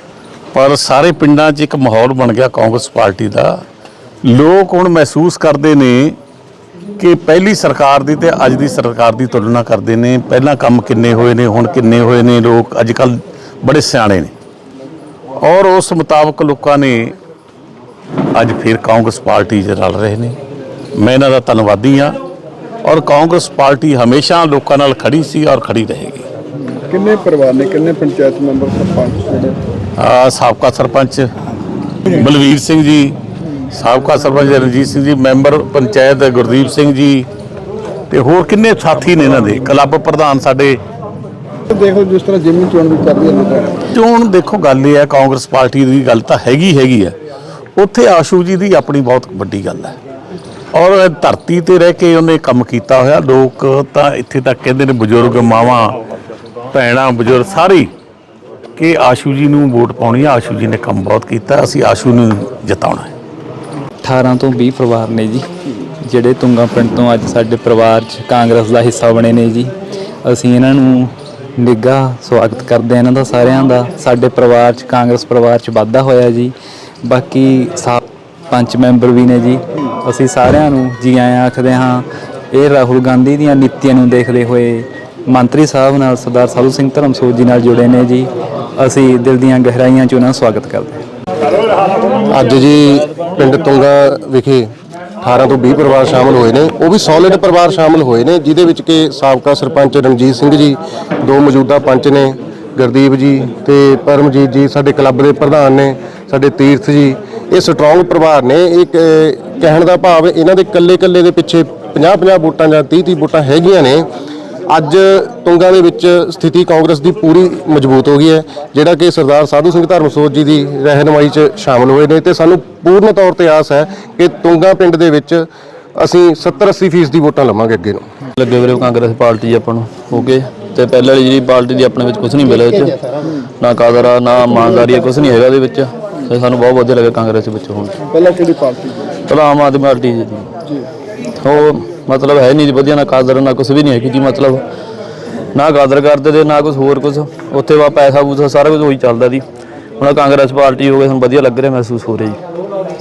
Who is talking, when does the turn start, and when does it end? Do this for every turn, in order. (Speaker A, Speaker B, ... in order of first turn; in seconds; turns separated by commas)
Speaker A: 0.5-3.5, Speaker A: 4.2-6.2, Speaker A: 7.0-14.3, Speaker A: 15.4-17.1, Speaker A: 18.4-20.4, Speaker A: 21.0-22.2, Speaker A: 22.8-26.2, Speaker B: 26.7-29.6, Speaker A: 30.0-31.3, Speaker A: 32.0-33.2, Speaker A: 33.7-37.3, Speaker A: 38.1-40.8, Speaker B: 41.7-43.9, Speaker A: 43.9-47.1, Speaker A: 47.8-50.0, Speaker A: 50.7-55.9, Speaker A: 56.7-57.9, Speaker A: 58.8-63.1, Speaker C: 64.0-65.5, Speaker C: 66.0-69.7, Speaker C: 70.2-91.0, Speaker D: 92.3-94.7, Speaker D: 95.2-114.1, Speaker D: 114.7-128.1, Speaker E: 128.4-138.0, Speaker B: 138.1-139.2, Speaker E: 139.3-140.5, Speaker E: 141.4-144.7, Speaker E: 145.5-149.4, Speaker E: 150.0-152.4